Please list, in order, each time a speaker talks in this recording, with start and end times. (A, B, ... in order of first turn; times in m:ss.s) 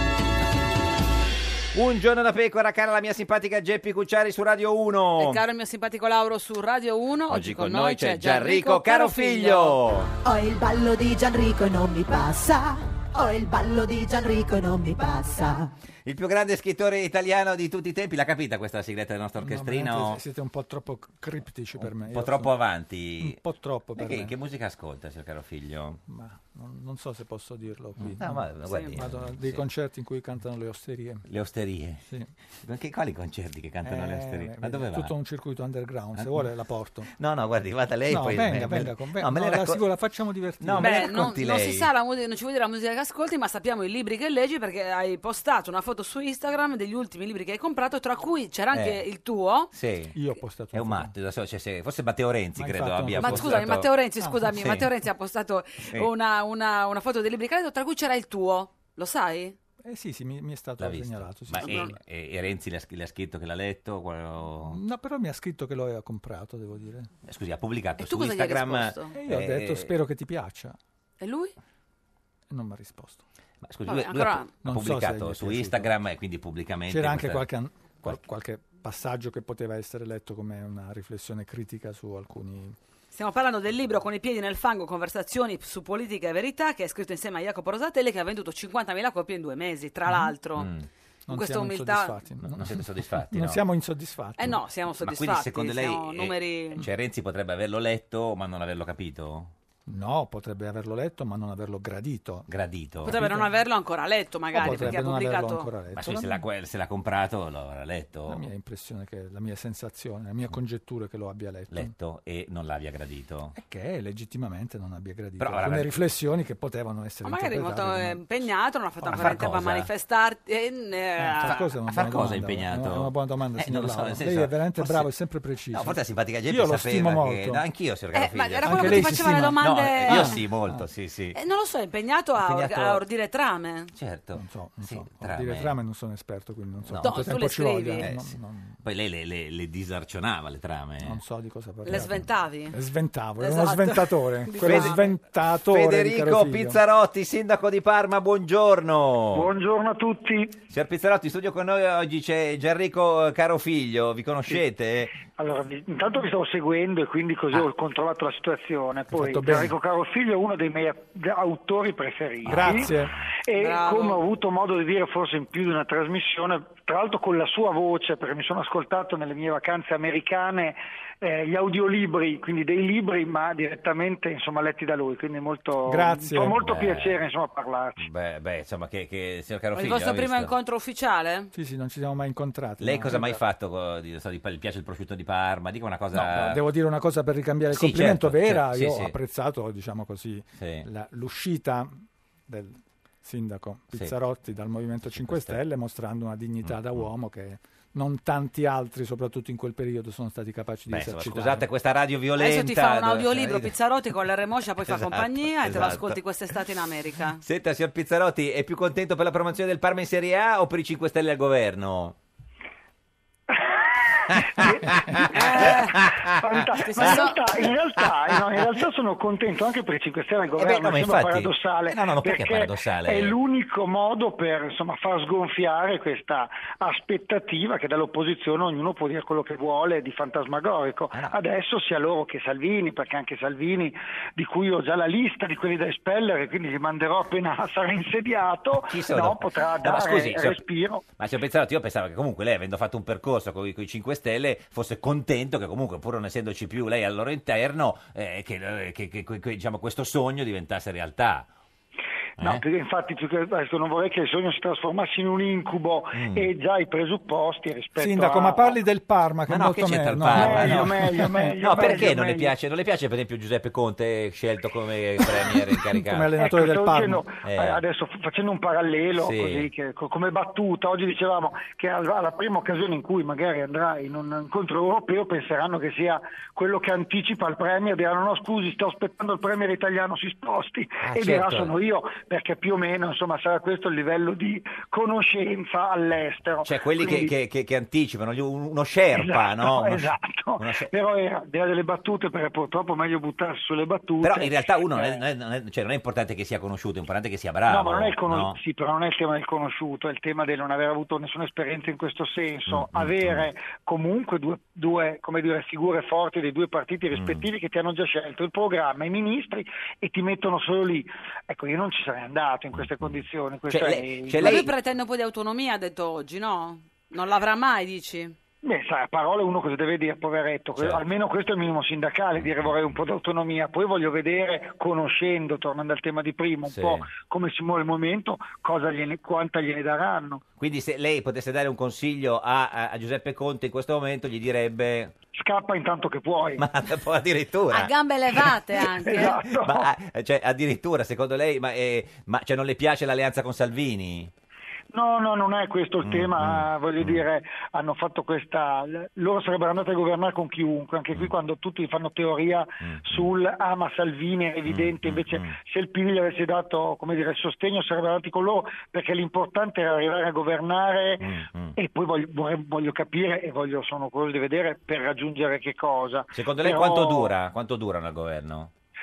0:01.7-0:05.4 A
0:05.2-0:09.8 B
0:07.3-0:10.1 A
0:10.2-0:15.7 C
0:16.0-0:20.2 A
0:19.4-0:22.5 D
0:21.8-0:23.4 A
0:23.2-0:24.3 D
0:24.0-0:26.0 A
0:26.1-0:31.2 D
0:28.0-0:29.6 A
0:28.7-0:29.0 B
0:31.3-0:32.0 A
0:32.6-0:35.1 A
0:33.8-0:37.1 D
0:36.2-0:36.5 A
0:37.1-0:39.8 A
0:38.1-0:41.3 D
0:40.6-0:41.9 A
0:40.8-0:49.7 B
0:48.7-0:49.0 A
0:49.7-0:50.1 A
0:50.1-0:51.1 D
0:50.7-0:53.9 A
0:52.6-0:54.5 D
0:53.2-0:59.6 B
0:54.5-0:54.9 A
0:59.8-1:01.9 D
1:00.8-1:04.8 A
1:01.6-1:01.9 B
1:04.7-1:07.1 D
1:07.2-1:09.9 A
1:08.0-1:09.1 B
1:09.1-1:10.8 D
1:11.2-1:11.5 B
1:12.5-1:13.2 D
1:13.6-1:17.4 A
1:13.8-1:14.5 B
1:14.6-1:15.9 D
1:16.9-1:22.8 D
1:23.1-1:30.7 B
1:30.6-1:30.9 A
1:31.3-1:34.6 D
1:31.3-1:32.2 B
1:32.5-1:33.6 A
1:34.4-1:36.8 B
1:35.0-1:39.5 A
1:39.9-1:42.5 D
1:42.5-1:43.2 A
1:43.0-1:43.5 D
1:43.0-1:45.7 B
1:44.5-1:46.4 D
1:44.6-1:45.0 A
1:45.9-1:48.4 A
1:48.3-1:51.9 D
1:51.7-1:53.5 A
1:53.5-1:58.2 D
1:55.4-1:55.9 A
1:57.2-2:01.6 B
1:59.1-1:59.4 D
1:59.1-1:59.9 A
2:01.2-2:07.6 D
2:01.4-2:05.1 A
2:05.7-2:11.4 A
2:08.1-2:10.4 B
2:08.6-2:10.8 D
2:11.3-2:13.9 B
2:12.4-2:13.0 A
2:13.9-2:15.8 A
2:14.3-2:18.8 D
2:16.8-2:17.1 A
2:17.0-2:18.1 B
2:18.0-2:21.2 A
2:21.0-2:26.8 D
2:21.8-2:22.8 B
2:23.4-2:25.1 B
2:24.6-2:25.0 A
2:25.6-2:29.5 A
2:29.3-2:30.6 E
2:30.7-2:35.1 A
2:35.4-2:42.9 E
2:39.1-2:39.7 D
2:42.4-2:43.3 A
2:42.4-2:43.2 D
2:43.4-2:58.0 E
2:43.5-2:44.2 B
2:55.8-2:56.6 D
2:56.5-2:57.2 A
2:58.0-3:00.5 A
2:59.7-3:01.5 B
3:01.5-3:03.4 D
3:02.8-3:06.6 A
3:06.1-3:21.6 D
3:07.7-3:09.1 A
3:10.6-3:10.8 A
3:15.2-3:15.6 A
3:16.6-3:17.1 A
3:20.9-3:23.7 A
3:22.4-3:27.4 B
3:24.8-3:26.2 A
3:27.4-3:32.2 A
3:33.5-4:01.0 E
3:34.3-3:38.7 A
3:35.3-3:36.0 B
3:36.8-3:37.4 B
3:40.6-3:43.4 A
3:51.1-3:51.4 A
3:58.7-4:00.6 A
4:01.2-4:11.5 A
4:12.4-4:12.6 A
4:12.4-4:18.8 E
4:16.1-4:16.5 A
4:18.0-4:21.6 D
4:19.5-4:26.3 A
4:20.3-4:22.5 E
4:25.9-4:27.2 D
4:26.4-4:47.3 E
4:27.4-4:27.8 A
4:29.1-4:29.7 A
4:41.0-4:41.7 A
4:46.6-4:50.9 A
4:49.1-4:55.2 E
4:54.2-4:58.6 A
4:57.7-5:14.6 E
5:02.7-5:03.5 A
5:07.1-5:07.5 A
5:12.7-5:14.7 A
5:14.4-5:18.3 B
5:18.6-5:30.4 E
5:20.8-5:21.0 A
5:22.4-5:23.0 A
5:26.6-5:27.1 A
5:30.6-5:35.1 A
5:35.3-5:36.6 E
5:36.6-5:38.4 A
5:37.7-5:39.4 B
5:38.9-5:39.9 E
5:39.1-5:44.3 A
5:44.9-6:07.3 E
5:46.0-5:47.2 A
5:52.8-5:53.3 A
5:54.6-5:55.6 A
6:01.2-6:01.8 A
6:06.3-6:08.7 A